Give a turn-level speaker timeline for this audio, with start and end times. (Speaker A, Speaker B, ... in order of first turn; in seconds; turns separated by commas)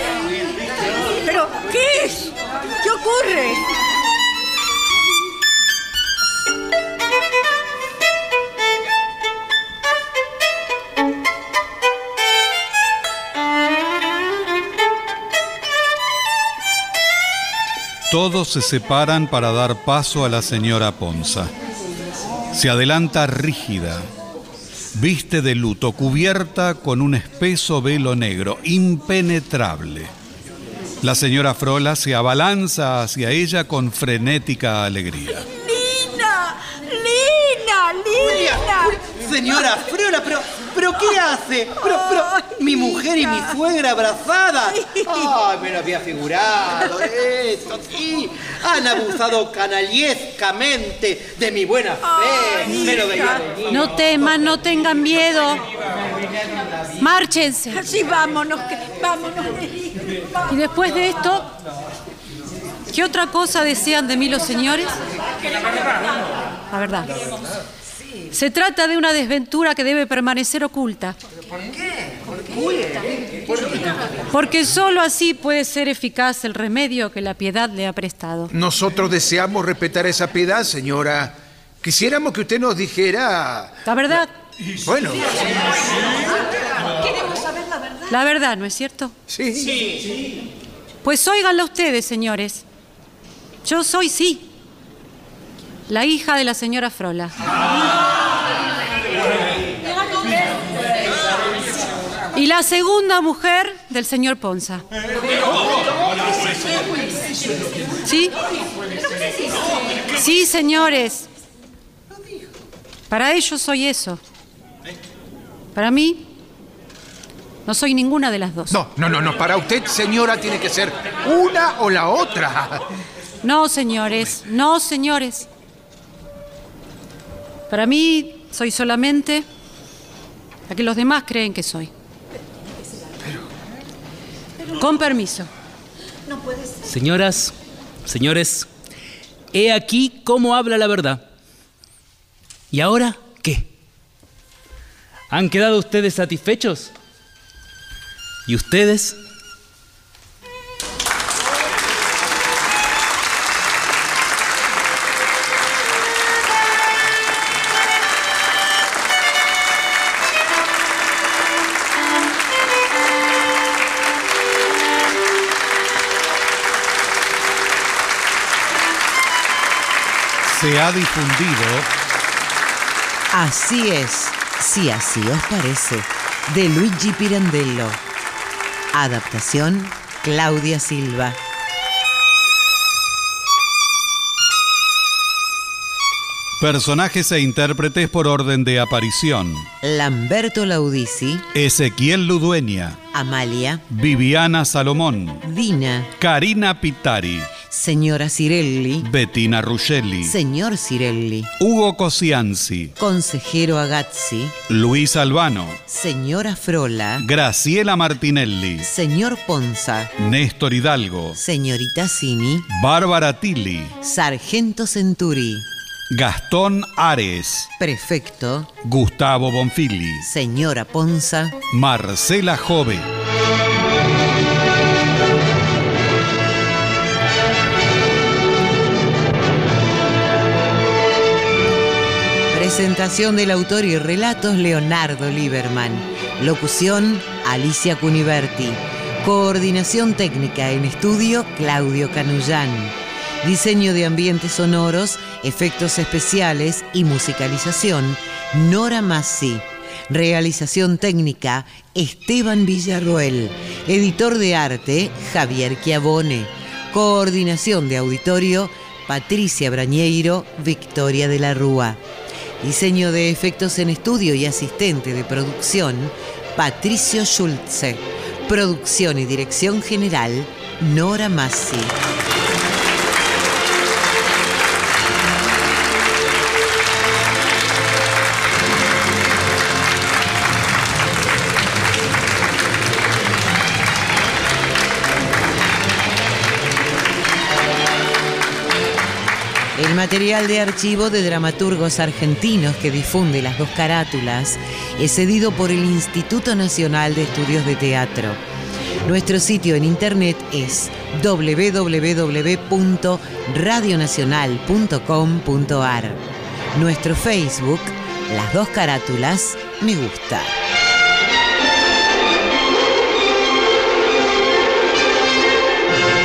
Speaker A: 1.2-3.6, Speaker B: 18.1-21.5, Speaker B: 22.5-24.1, Speaker B: 24.9-30.1, Speaker B: 31.0-35.5, Speaker A: 35.5-39.0, Speaker C: 38.2-53.9, Speaker A: 41.8-43.6, Speaker A: 44.6-45.4, Speaker A: 52.0-53.5, Speaker D: 53.7-55.6, Speaker D: 57.0-57.8, Speaker A: 57.7-60.2, Speaker D: 60.5-61.5, Speaker D: 62.9-65.0, Speaker D: 66.7-67.1, Speaker D: 68.3-71.2, Speaker E: 71.5-74.2, Speaker D: 74.3-78.5, Speaker F: 78.5-83.8, Speaker D: 83.8-84.3, Speaker F: 84.8-85.5, Speaker D: 88.1-89.1, Speaker F: 89.3-89.9, Speaker D: 91.0-92.6, Speaker D: 93.6-94.5, Speaker D: 95.9-97.4, Speaker D: 102.3-104.8, Speaker D: 108.0-108.3, Speaker D: 110.1-111.2, Speaker D: 113.1-114.2, Speaker D: 115.7-116.2, Speaker D: 117.7-118.8, Speaker F: 118.7-122.8, Speaker D: 123.4-125.5, Speaker D: 127.7-129.4, Speaker D: 130.7-131.9, Speaker D: 134.7-135.5, Speaker G: 136.8-137.5, Speaker G: 138.0-138.7, Speaker G: 139.5-141.2, Speaker G: 142.7-143.7, Speaker G: 145.3-146.9, Speaker G: 148.5-149.2, Speaker B: 170.4-171.9, Speaker H: 173.3-178.0, Speaker H: 178.9-181.4, Speaker B: 186.6-189.7, Speaker H: 189.8-191.4, Speaker B: 191.5-193.0, Speaker H: 193.1-193.8, Speaker B: 193.9-195.4, Speaker H: 195.4-196.1, Speaker B: 196.2-197.5, Speaker H: 197.7-199.1, Speaker B: 199.0-200.3, Speaker H: 200.2-201.5, Speaker B: 201.6-202.9, Speaker H: 203.0-204.5, Speaker B: 204.7-205.8, Speaker H: 205.9-207.2, Speaker B: 207.2-208.9, Speaker H: 208.8-210.1, Speaker B: 210.2-211.4, Speaker H: 211.4-212.7, Speaker B: 212.7-213.9, Speaker H: 214.0-215.7, Speaker B: 216.1-217.7, Speaker H: 217.8-218.7, Speaker B: 218.8-220.2, Speaker H: 220.2-221.6, Speaker B: 221.7-223.1, Speaker H: 232.5-262.0, Speaker H: 262.6-272.0, Speaker H: 289.7-298.4, Speaker H: 299.0-310.6